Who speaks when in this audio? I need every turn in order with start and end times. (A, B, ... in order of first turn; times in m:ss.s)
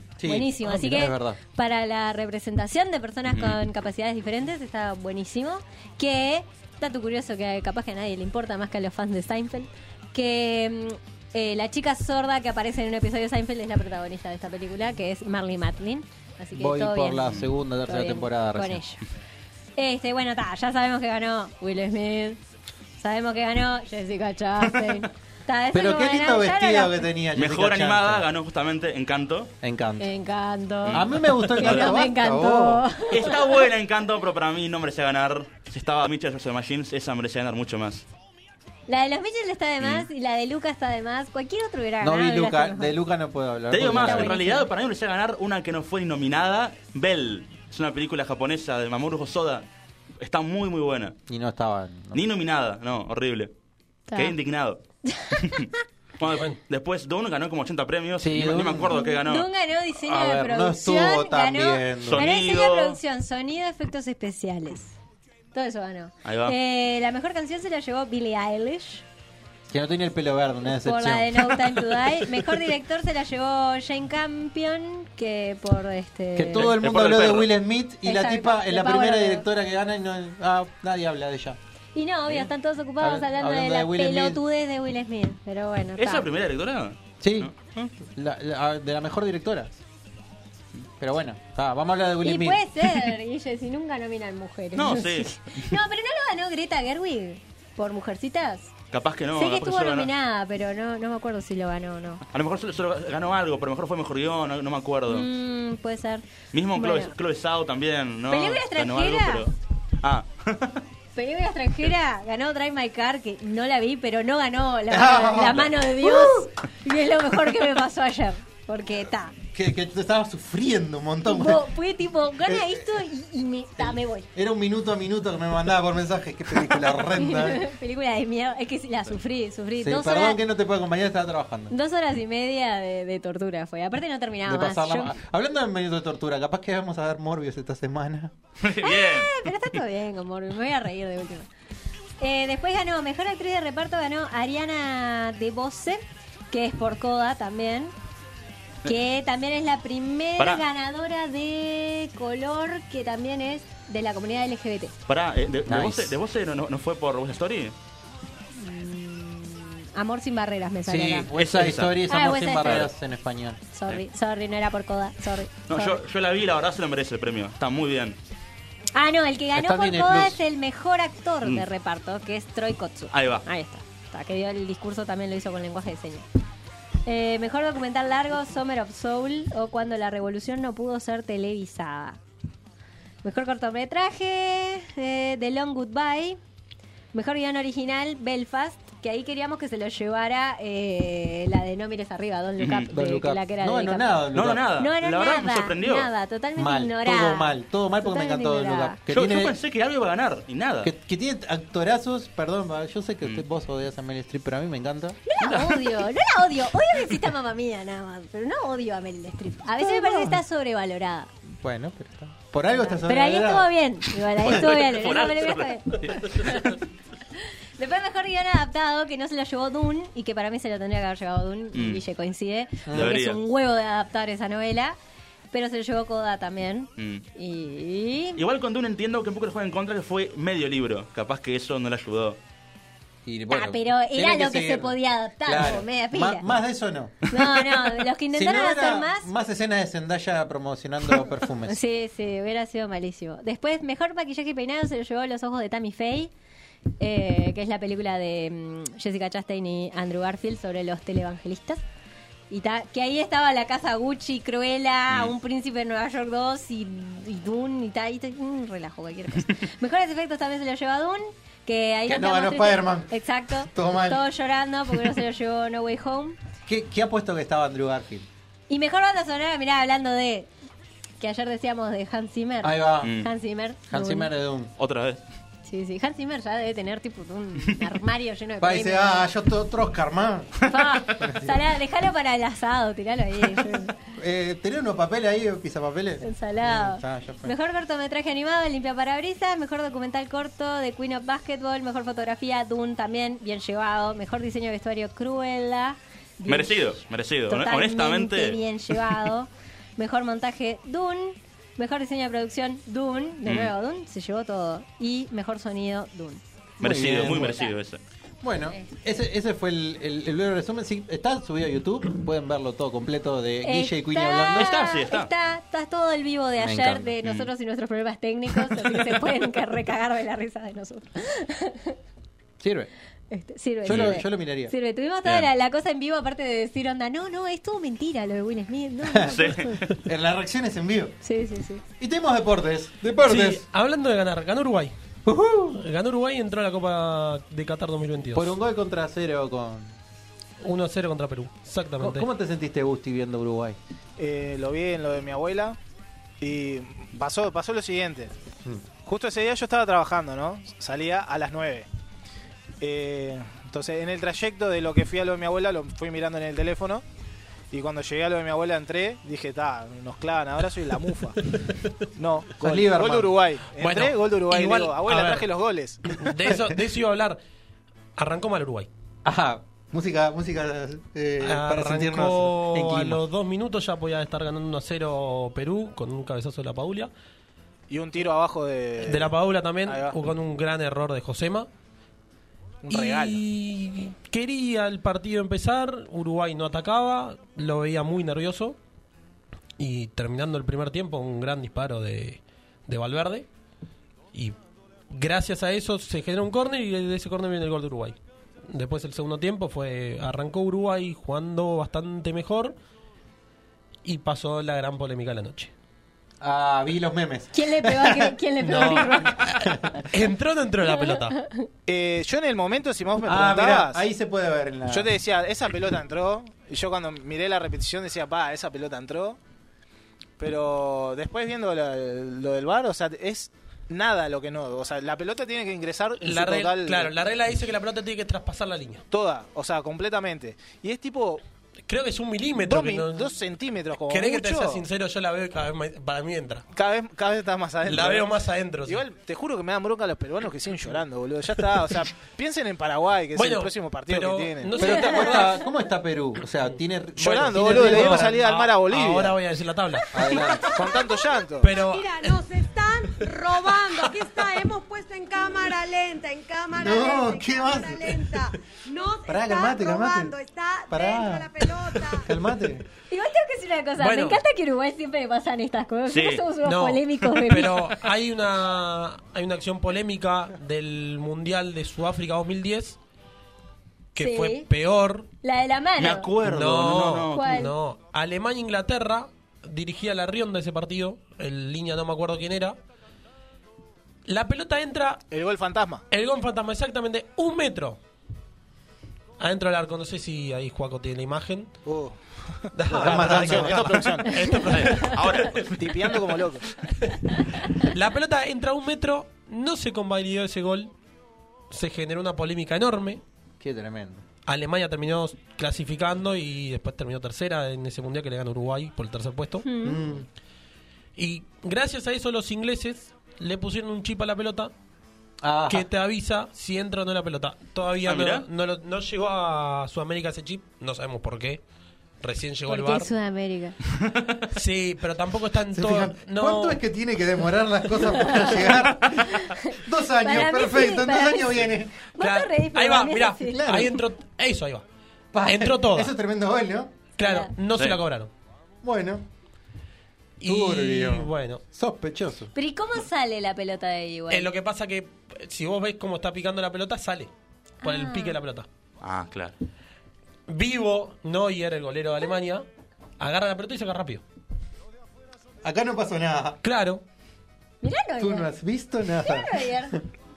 0:00.2-0:01.4 A
0:00.3-0:19.0 B
0:03.3-0:03.6 C
0:16.6-0:18.8 A
0:19.8-0:22.4 B
0:23.0-0:27.0 B
0:25.7-0:28.3 A
0:27.4-0:29.5 C
0:29.6-0:30.1 A
0:30.0-0:33.4 B
0:30.9-0:31.9 C
0:30.9-0:32.9 A
0:33.1-0:38.0 C
0:38.9-0:43.0 B
0:39.8-0:40.1 C
0:42.0-0:44.4 A
0:43.7-0:49.7 C
0:43.9-0:44.7 B
0:50.2-0:51.2 C
0:51.3-0:52.2 A
0:52.1-0:53.5 C
0:54.1-0:54.4 B
0:54.1-0:54.8 C
0:55.0-0:55.8 B
0:55.3-0:55.7 C
0:56.2-0:59.5 C
0:58.2-0:59.0 A
0:58.9-1:05.0 B
1:00.0-1:02.3 A
1:02.0-1:03.0 C
1:05.5-1:09.0 B
1:06.2-1:06.6 C
1:09.7-1:11.8 A
1:10.7-1:16.7 B
1:16.4-1:21.6 A
1:16.5-1:17.5 C
1:18.0-1:19.5 B
1:22.0-1:26.3 B
1:23.0-1:24.4 A
1:26.0-1:27.9 C
1:27.2-1:29.8 A
1:31.0-1:32.6 A
1:32.2-1:38.7 B
1:34.8-1:35.7 C
1:38.9-1:40.1 C
1:39.4-1:42.2 B
1:42.3-1:45.3 C
1:45.1-1:47.1 B
1:46.5-1:50.8 C
1:48.3-1:49.5 B
1:51.2-1:59.4 B
1:54.9-1:56.5 A
1:59.5-2:01.7 A
2:01.3-2:04.3 B
2:02.4-2:03.0 A
2:03.8-2:07.7 A
2:07.0-2:10.4 B
2:09.8-2:11.7 A
2:11.7-2:15.2 B
2:14.4-2:18.3 A
2:18.6-2:19.4 C
2:18.8-2:21.5 B
2:22.2-2:27.9 B
2:28.8-2:34.9 B
2:30.4-2:30.6 C
2:35.1-2:37.8 C
2:35.7-2:36.2 A
2:38.6-2:41.3 B
2:40.9-2:43.6 A
2:41.4-2:42.0 C
2:42.1-2:42.9 B
2:42.6-2:42.9 C
2:43.7-2:46.0 B
2:45.7-2:48.2 C
2:49.0-2:56.3 B
2:49.5-2:50.4 A
2:53.1-2:53.4 C
2:57.1-3:02.2 B
3:03.2-3:06.4 B
3:07.1-3:14.2 B
3:12.6-3:12.9 C
3:12.9-3:14.6 A
3:14.3-3:16.1 C
3:14.8-3:19.0 B
3:16.6-3:19.5 A
3:19.1-3:20.9 C
3:20.8-3:25.2 A
3:25.3-3:31.3 B
3:25.4-3:26.0 C
3:29.8-3:30.4 A
3:31.5-3:33.7 A
3:32.8-3:36.8 B
3:34.4-3:36.8 C
3:37.8-3:45.0 B
3:41.7-3:42.0 C
3:42.9-3:43.2 A
3:42.9-3:43.4 C
3:45.5-3:48.4 B
3:47.0-3:47.2 C
3:48.4-3:52.4 C
3:53.2-3:57.3 A
3:53.5-3:56.5 B
3:57.3-3:59.3 B
3:58.3-4:01.8 A
4:01.7-4:06.3 B
4:07.0-4:11.8 B
4:12.5-4:26.4 B
4:22.1-4:24.2 A
4:26.7-4:28.3 A
4:28.7-4:30.5 B
4:31.2-4:34.3 B
4:32.6-4:33.1 A
4:33.0-4:33.3 C
4:33.9-4:34.7 A
4:34.8-4:35.2 C
4:35.6-4:39.3 B
4:38.6-4:41.6 A
4:40.7-4:43.9 B
4:43.6-4:47.6 A
4:46.2-4:56.8 B
4:56.5-4:58.6 C
4:57.5-5:06.4 B
5:03.5-5:03.7 C
5:06.8-5:08.0 C
5:06.8-5:07.6 A
5:07.3-5:07.7 B
5:08.4-5:14.9 A
5:13.6-5:22.0 B
5:14.6-5:15.3 C
5:16.6-5:17.1 A
5:22.6-5:22.9 A
5:23.3-5:29.8 B
5:23.8-5:24.7 A
5:23.9-5:24.1 C
5:29.1-5:29.3 A
5:29.3-5:29.8 C
5:30.0-5:31.2 A
5:31.2-5:31.8 B
5:32.0-5:33.6 A
5:33.2-5:34.9 D
5:35.3-5:35.8 A
5:35.7-5:38.5 D
5:38.3-5:39.9 A
5:40.6-5:42.3 D
5:42.0-5:43.8 A
5:44.2-5:45.8 E
5:46.4-5:48.4 E
5:49.0-5:51.9 E
5:52.8-5:57.0 E
5:57.7-6:01.4 E
6:01.5-6:01.9 D
6:02.2-6:06.2 E
6:02.6-6:03.4 A
6:03.8-6:05.5 D
6:06.0-6:07.4 D
6:08.2-6:08.9 D
6:09.2-6:13.2 A
6:11.4-6:17.1 D
6:17.9-6:20.2 E
6:19.0-6:21.7 D
6:22.8-6:23.4 E
6:22.9-6:28.8 D
6:29.8-6:33.5 D
6:35.1-6:38.2 D
6:38.7-6:42.8 D
6:44.0-6:45.7 D
6:46.4-6:50.0 A
6:47.5-6:49.5 B
6:48.6-6:51.4 D
6:50.9-6:51.7 B
6:51.9-6:54.0 E
6:53.2-6:55.1 A
6:54.9-6:59.4 E
7:00.4-7:07.1 E
7:06.2-7:09.0 D
7:09.1-7:11.4 E
7:11.9-7:13.3 D
7:12.5-7:14.8 E
7:14.1-7:16.6 D
7:16.7-7:18.4 E
7:17.8-7:19.0 D
7:18.9-7:25.0 E
7:23.4-7:25.6 D
7:24.8-7:28.4 A
7:27.2-7:29.4 E
7:27.4-7:30.1 D
7:30.1-7:30.9 A
7:30.3-7:30.6 B
7:30.7-7:31.7 E
7:30.9-7:42.3 F
7:31.6-7:32.4 D
7:36.7-7:38.4 A
7:39.3-7:40.4 A
7:40.9-7:42.8 A
7:43.1-7:47.9 B
7:44.0-7:44.4 D
7:46.1-7:46.5 C
7:46.6-7:53.0 D
7:54.2-7:55.3 D
7:54.2-7:54.7 B
7:55.4-7:56.3 B
7:56.0-7:57.7 C
7:56.4-8:02.8 D
7:57.3-7:57.7 B
8:04.3-8:05.2 D
8:05.3-8:06.1 E
8:06.1-8:08.0 D
8:09.4-8:11.7 D
8:11.8-8:14.5 E
8:12.7-8:15.6 D
8:12.9-8:14.0 A
8:14.5-8:16.2 C
8:15.8-8:16.7 E
8:17.0-8:20.9 D
8:21.7-8:23.2 D
8:23.6-8:24.2 A
8:24.5-8:29.7 D
8:29.6-8:30.0 B
8:29.8-8:30.3 A
8:31.2-8:34.7 D
8:35.4-8:35.9 A
8:35.7-8:41.6 D
8:38.0-8:38.5 C
8:42.2-8:43.1 D
8:42.7-8:43.8 B
8:44.5-8:46.8 D
8:45.7-8:52.1 A
8:48.3-8:48.6 B
8:49.3-8:51.6 B
8:52.2-8:53.8 B
8:52.2-8:54.8 D
8:53.5-8:54.0 A
8:55.3-8:57.0 A
8:55.4-8:56.1 D
8:57.2-8:58.3 D
8:57.2-8:57.5 B
8:58.8-8:59.3 A
9:00.4-9:01.6 D
9:00.4-9:02.5 A
9:02.6-9:04.5 B
9:04.3-9:07.3 D
9:07.8-9:08.4 B
9:07.8-9:08.7 D
9:09.0-9:09.6 C
9:10.5-9:12.6 D
9:13.2-9:14.2 D
9:15.6-9:16.6 A
9:16.6-9:17.0 D
9:17.8-9:18.5 B
9:18.2-9:20.0 A
9:19.2-9:20.0 B